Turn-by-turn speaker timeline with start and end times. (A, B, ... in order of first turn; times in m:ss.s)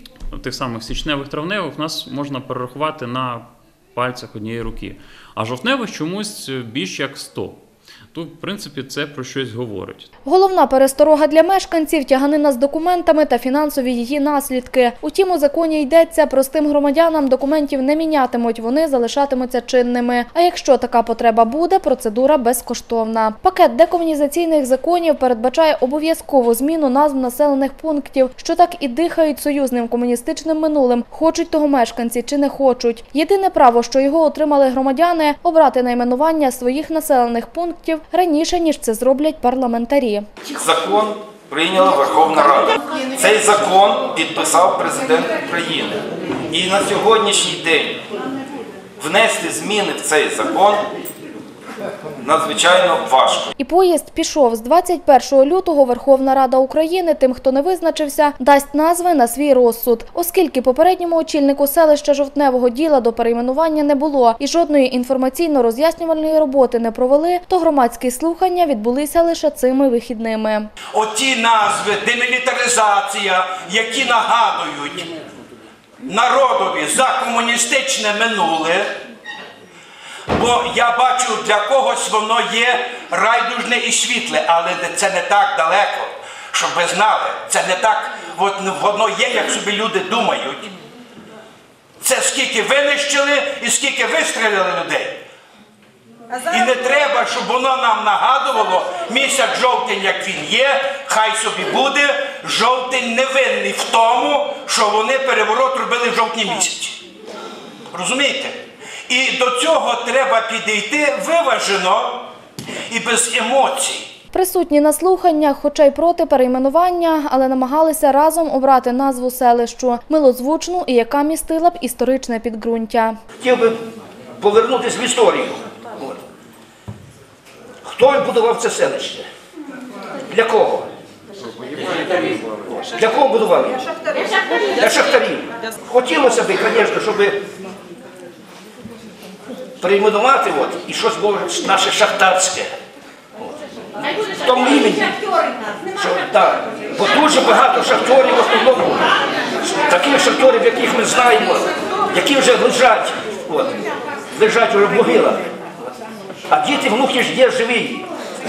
0:00.3-0:07.6 A
0:08.1-0:10.1 A
0:10.2-0:40.2 B
0:40.5-0:48.0 C
0:49.0-0:50.9 C
0:52.2-0:53.5 C
0:53.6-1:10.7 B
1:10.9-1:15.2 D
1:16.0-1:18.9 D
1:20.3-1:30.7 D
1:32.0-1:35.2 D
1:36.4-1:47.0 D
1:47.9-1:48.6 D
1:49.1-1:52.3 D
1:52.9-1:54.1 D
1:54.3-2:03.2 B
2:03.4-2:03.8 E
2:04.4-2:06.2 E
2:07.8-2:09.3 E
2:10.3-2:10.9 E
2:12.8-2:13.9 E
2:14.6-2:17.4 E
2:19.8-2:22.8 E
2:24.0-2:25.2 E
2:25.9-2:29.1 E
2:29.7-2:35.5 E
2:36.5-2:38.1 E